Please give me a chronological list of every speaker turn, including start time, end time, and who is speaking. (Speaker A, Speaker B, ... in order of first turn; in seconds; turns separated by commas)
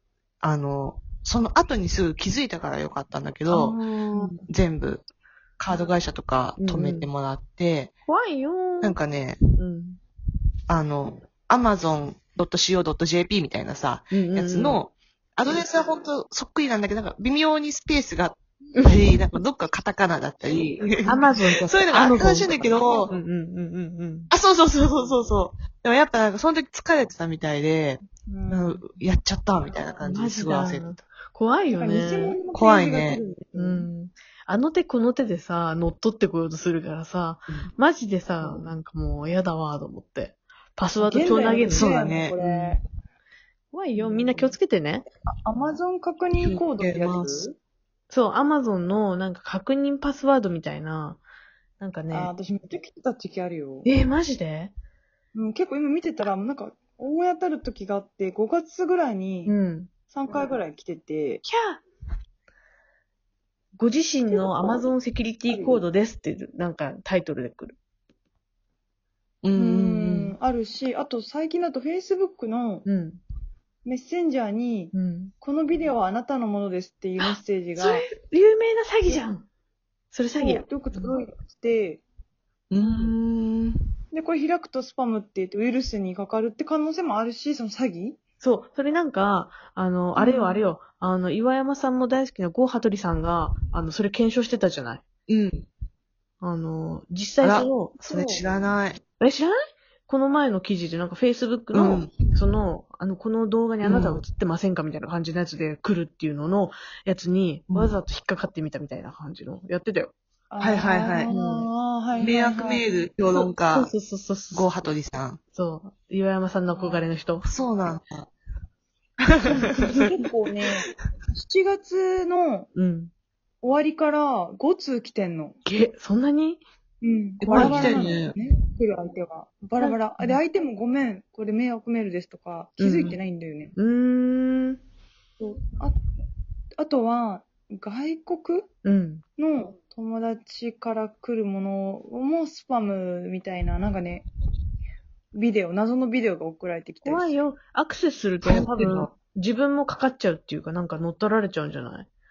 Speaker A: 0.4-5.0, Speaker B: 3.5-4.4, Speaker A: 5.6-7.9, Speaker B: 6.6-7.1, Speaker B: 8.1-9.0, Speaker A: 8.8-9.4, Speaker B: 9.6-10.0, Speaker A: 10.7-23.1, Speaker B: 14.1-14.8, Speaker B: 18.8-19.0, Speaker B: 21.0-24.3, Speaker A: 24.3-31.0, Speaker C: 28.2-28.9, Speaker B: 30.0-32.4, Speaker C: 31.7-33.9, Speaker A: 32.5-33.2, Speaker B: 33.5-42.8, Speaker C: 41.0-42.8, Speaker A: 41.6-42.3, Speaker B: 43.7-45.0, Speaker C: 44.0-44.5, Speaker C: 45.3-47.5, Speaker A: 46.4-47.5, Speaker B: 48.1-51.2, Speaker B: 51.8-52.3, Speaker C: 52.1-53.9, Speaker B: 53.8-54.7, Speaker C: 55.3-59.5, Speaker B: 59.5-59.9, Speaker C: 60.1-61.4, Speaker B: 61.4-61.8, Speaker B: 63.8-67.8, Speaker C: 64.3-64.9, Speaker C: 65.5-65.8, Speaker A: 69.4-70.3, Speaker C: 69.5-72.9, Speaker B: 72.8-73.2, Speaker C: 73.8-78.1, Speaker B: 74.9-75.3, Speaker B: 77.2-79.5, Speaker B: 80.1-80.6, Speaker C: 80.4-82.0, Speaker A: 82.7-83.9, Speaker C: 84.1-88.2, Speaker B: 88.4-95.0, Speaker C: 90.2-90.6, Speaker A: 95.3-95.7, Speaker B: 96.4-98.4, Speaker A: 97.4-99.0, Speaker C: 98.1-98.4, Speaker B: 99.2-99.5, Speaker B: 100.1-110.1, Speaker A: 101.7-102.2, Speaker A: 103.8-104.2, Speaker A: 107.7-108.0, Speaker C: 110.5-112.8, Speaker A: 110.6-111.3, Speaker B: 111.3-111.7, Speaker A: 112.2-113.9, Speaker B: 113.3-114.8, Speaker A: 114.5-115.4, Speaker B: 115.5-117.5, Speaker C: 116.7-117.0, Speaker A: 117.4-118.3, Speaker C: 119.5-122.7, Speaker B: 122.7-123.1, Speaker C: 123.6-125.6, Speaker B: 125.7-126.6, Speaker C: 127.0-133.7, Speaker A: 127.4-128.3, Speaker B: 127.5-128.0, Speaker B: 129.8-130.4, Speaker B: 132.8-133.2, Speaker B: 133.8-134.8, Speaker C: 135.4-136.0, Speaker C: 136.8-138.7, Speaker B: 138.8-139.2, Speaker C: 139.4-144.3, Speaker C: 145.3-147.4, Speaker B: 147.0-152.1, Speaker A: 148.4-149.1